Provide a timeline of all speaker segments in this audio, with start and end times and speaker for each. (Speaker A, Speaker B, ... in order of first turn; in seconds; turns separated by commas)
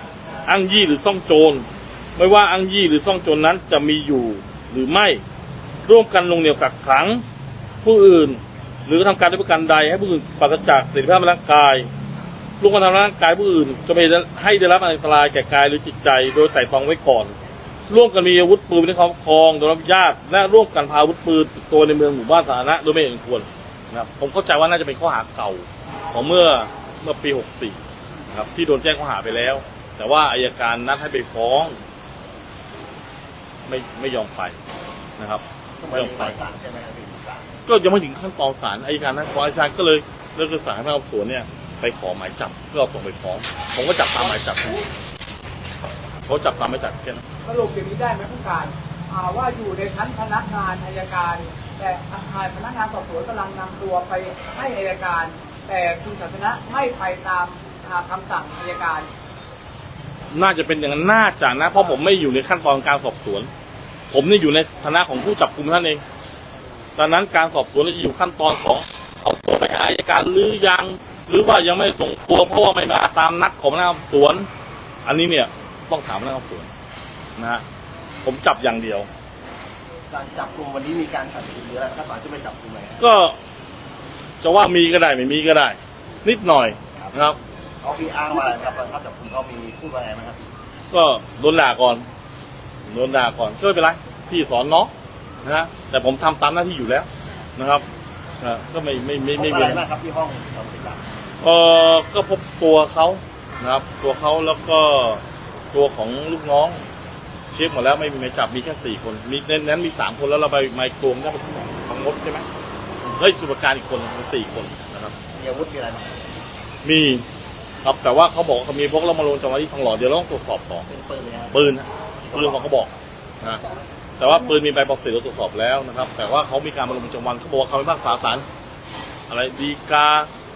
Speaker A: 0.5-5.2, Speaker A: 5.8-7.2, Speaker A: 7.8-11.9, Speaker A: 12.6-17.4, Speaker A: 17.9-27.8, Speaker A: 28.3-31.8, Speaker A: 33.7-34.6, Speaker A: 35.2-36.4, Speaker B: 35.8-37.5, Speaker A: 37.7-44.8, Speaker A: 46.3-47.2, Speaker C: 47.4-59.1, Speaker A: 60.3-63.5, Speaker A: 64.1-66.0, Speaker A: 67.0-74.5, Speaker A: 75.0-76.7, Speaker A: 77.4-77.6, Speaker A: 78.2-79.1, Speaker B: 80.1-83.0, Speaker A: 83.0-83.4, Speaker A: 84.4-87.4, Speaker B: 87.8-90.5, Speaker A: 90.9-92.1, Speaker A: 92.9-94.9, Speaker A: 95.4-97.8, Speaker A: 98.4-99.8, Speaker B: 99.4-101.1, Speaker A: 101.4-106.8, Speaker A: 107.5-112.5, Speaker A: 113.0-115.2, Speaker B: 115.3-116.2, Speaker A: 116.8-117.2, Speaker A: 117.8-120.9, Speaker B: 120.9-121.5, Speaker A: 121.5-123.6, Speaker A: 124.2-128.5, Speaker A: 129.3-130.3